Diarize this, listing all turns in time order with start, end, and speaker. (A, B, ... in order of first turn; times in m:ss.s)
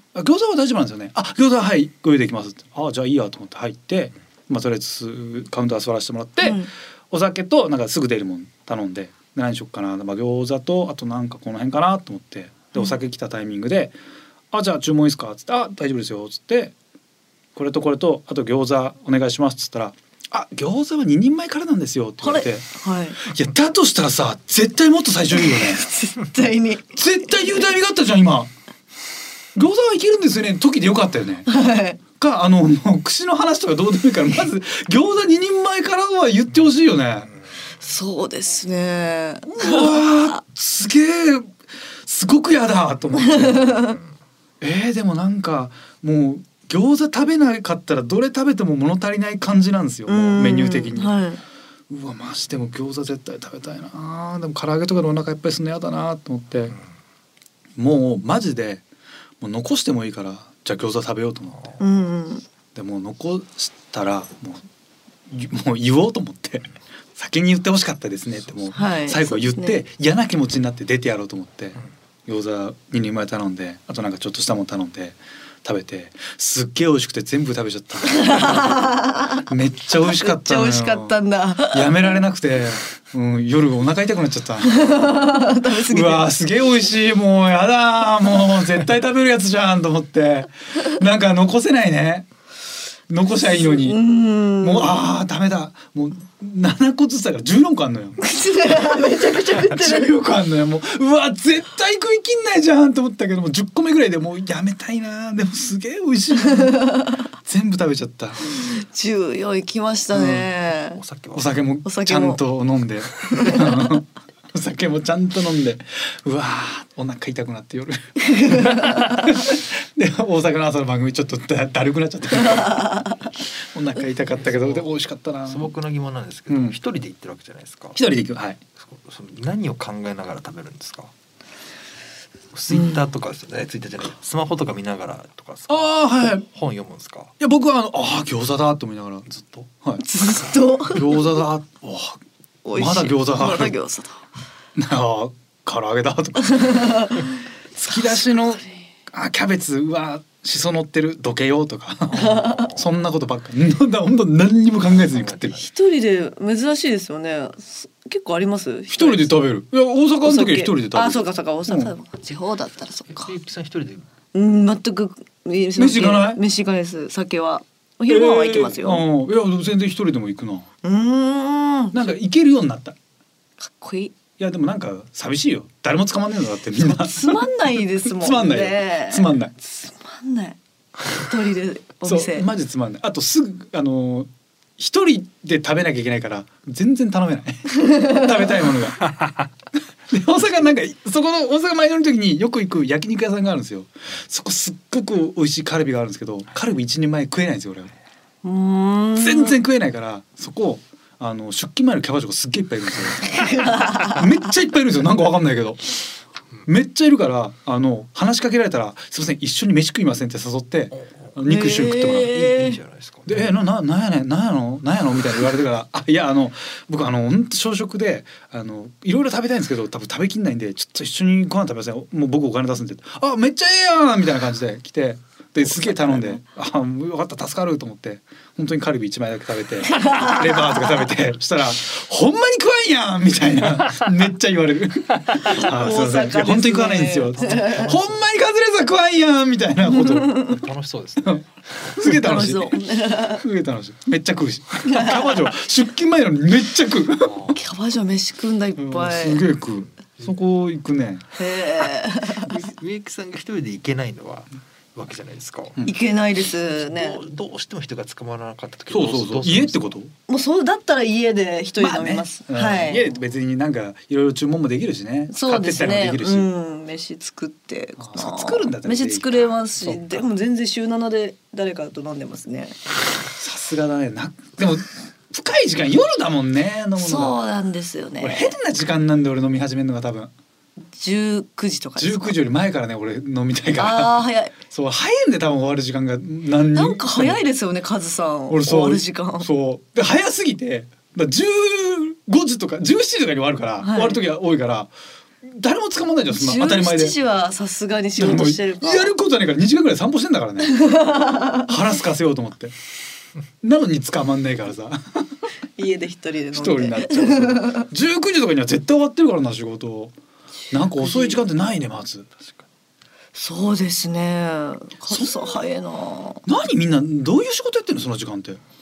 0:00.1-0:14.0 A
0:06.4-0:06.7 B
0:14.5-0:16.7 A
0:17.6-0:22.7 A
0:22.2-0:23.2 B
0:23.2-0:25.9 A
0:25.4-0:26.9 B
0:26.9-0:28.5 A
0:29.6-0:31.5 A
0:31.5-0:32.0 B
0:32.2-0:37.3 A
0:37.8-0:40.4 B
0:39.6-0:43.7 A
0:43.2-0:44.0 B
0:44.6-0:51.2 A
0:50.1-0:51.4 B
0:51.9-0:56.8 A
0:57.8-0:58.8 A
0:59.4-1:01.8 A
1:01.8-1:02.4 B
1:02.8-1:04.6 A
1:05.3-1:32.3 A
1:08.8-1:09.8 B
1:18.1-1:19.5 B
1:20.0-1:22.2 B
1:24.7-1:26.3 B
1:33.1-1:34.0 A
1:33.4-1:35.0 B
1:34.6-1:48.6 A
1:38.2-1:40.1 B
1:46.5-1:47.2 B
1:48.5-1:51.0 B
1:50.1-1:50.5 A
1:50.9-1:51.6 C
1:51.3-2:05.7 A
1:51.8-1:52.4 B
1:53.3-1:53.9 B
1:58.2-1:59.3 B
2:02.8-2:03.2 B
2:04.4-2:04.9 C
2:05.5-2:08.0 C
2:06.5-2:06.8 A
2:08.0-2:08.6 A
2:08.8-2:11.1 C
2:12.5-2:17.3 C
2:15.7-2:16.5 A
2:17.4-2:20.0 A
2:20.0-2:21.2 B
2:20.9-2:22.2 A
2:22.6-2:24.2 B
2:22.8-2:23.8 A
2:24.8-2:27.0 A
2:26.5-2:27.3 B
2:27.8-2:35.6 A
2:32.1-2:32.7 B
2:32.4-2:32.8 C
2:35.0-2:35.7 C
2:35.6-2:39.4 B
2:38.9-2:41.9 A
2:40.2-2:43.3 B
2:43.1-2:44.1 C
2:44.3-2:49.0 B
2:45.8-2:46.4 A
2:48.1-2:50.7 A
2:50.8-2:52.0 B
2:51.9-2:53.0 A
2:53.6-2:54.1 B
2:54.4-2:59.5 A
2:56.8-3:00.6 B
3:01.2-3:02.5 B
3:02.0-3:09.4 A
3:07.9-3:08.2 B
3:10.1-3:17.9 A
3:18.4-3:19.6 B
3:19.2-3:26.0 A
3:23.3-3:24.2 B
3:26.7-3:32.4 A
3:31.5-3:32.8 B
3:32.2-3:33.5 C
3:33.3-4:00.6 A
3:50.0-3:50.4 B
3:55.5-3:57.9 B
3:57.2-3:58.2 C
4:00.4-4:01.5 C
4:02.0-4:07.5 A
4:02.0-4:03.4 B
4:07.3-4:07.6 C
4:07.5-4:09.4 B
4:08.8-4:11.3 A
4:11.4-4:12.5 B
4:12.5-4:15.8 C
4:15.8-4:17.2 B
4:16.7-4:20.0 C
4:18.9-4:20.1 A
4:20.3-4:23.1 B
4:21.8-4:26.5 A
4:25.3-4:32.8 B
4:28.0-4:30.2 A
4:33.4-4:37.4 A
4:37.0-4:38.5 B
4:38.2-4:40.3 A
4:41.0-4:42.4 B
4:42.0-4:47.4 A
4:43.8-4:44.6 B
4:46.8-4:49.5 B
4:48.5-4:54.9 A
4:53.8-4:54.2 B
4:55.4-4:57.2 A
4:56.3-4:59.1 B
4:58.2-5:02.8 A
5:00.7-5:01.7 B
5:03.6-5:05.3 A
5:05.8-5:07.9 B
5:06.5-5:10.1 A
5:10.7-5:12.3 A
5:11.0-5:11.4 B
5:12.4-5:12.6 C
5:13.4-5:16.4 B
5:15.1-5:15.6 A
5:16.4-5:18.6 A